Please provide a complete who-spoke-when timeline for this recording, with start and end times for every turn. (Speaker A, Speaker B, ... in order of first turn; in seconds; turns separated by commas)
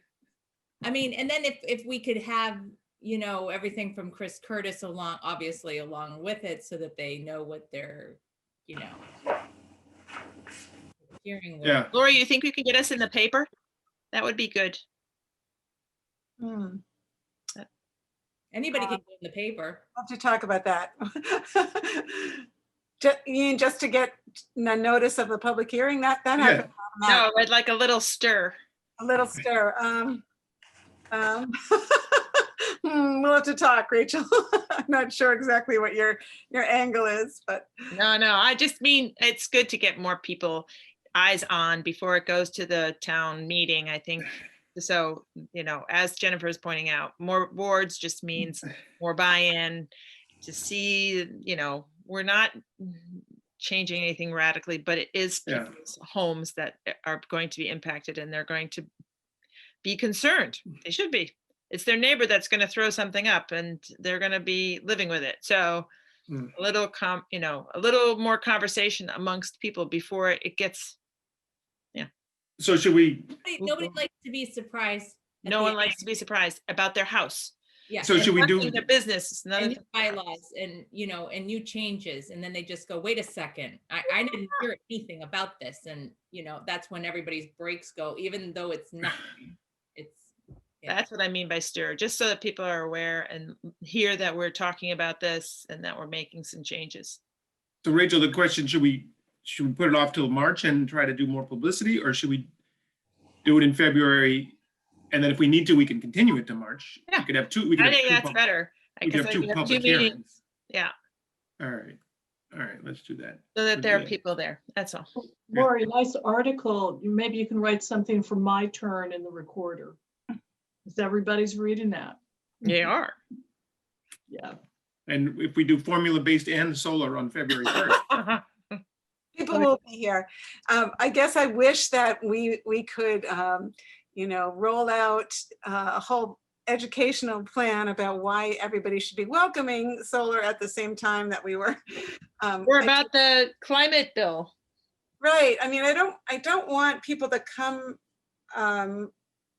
Speaker A: 0.8-9.0, Speaker A: 11.2-11.9, Speaker B: 11.6-11.9, Speaker C: 11.9-13.5, Speaker C: 14.1-14.8, Speaker D: 16.4-16.8, Speaker A: 18.5-19.8, Speaker D: 19.9-22.4, Speaker D: 23.0-27.2, Speaker B: 26.4-26.7, Speaker C: 27.0-28.6, Speaker D: 29.0-30.2, Speaker D: 31.1-37.7, Speaker C: 37.9-49.9, Speaker C: 50.4-58.9, Speaker C: 59.8-65.9, Speaker C: 66.5-71.0, Speaker B: 72.6-73.9, Speaker A: 73.4-76.0, Speaker C: 75.5-77.5, Speaker A: 77.9-78.4, Speaker B: 78.0-78.8, Speaker C: 78.1-79.8, Speaker A: 79.6-90.3, Speaker C: 90.9-97.2, Speaker B: 97.8-102.5, Speaker B: 103.4-104.5, Speaker B: 105.1-108.4, Speaker C: 107.1-110.9, Speaker B: 109.0-110.2, Speaker B: 111.6-112.0, Speaker B: 112.5-114.2, Speaker C: 113.5-115.1, Speaker E: 115.5-120.0, Speaker E: 120.8-122.2, Speaker C: 122.6-123.2, Speaker E: 124.3-124.5, Speaker B: 125.1-128.0, Speaker C: 127.7-128.4, Speaker D: 129.3-141.8, Speaker D: 142.4-143.0, Speaker C: 142.6-144.5, Speaker D: 145.2-148.0, Speaker D: 148.5-149.1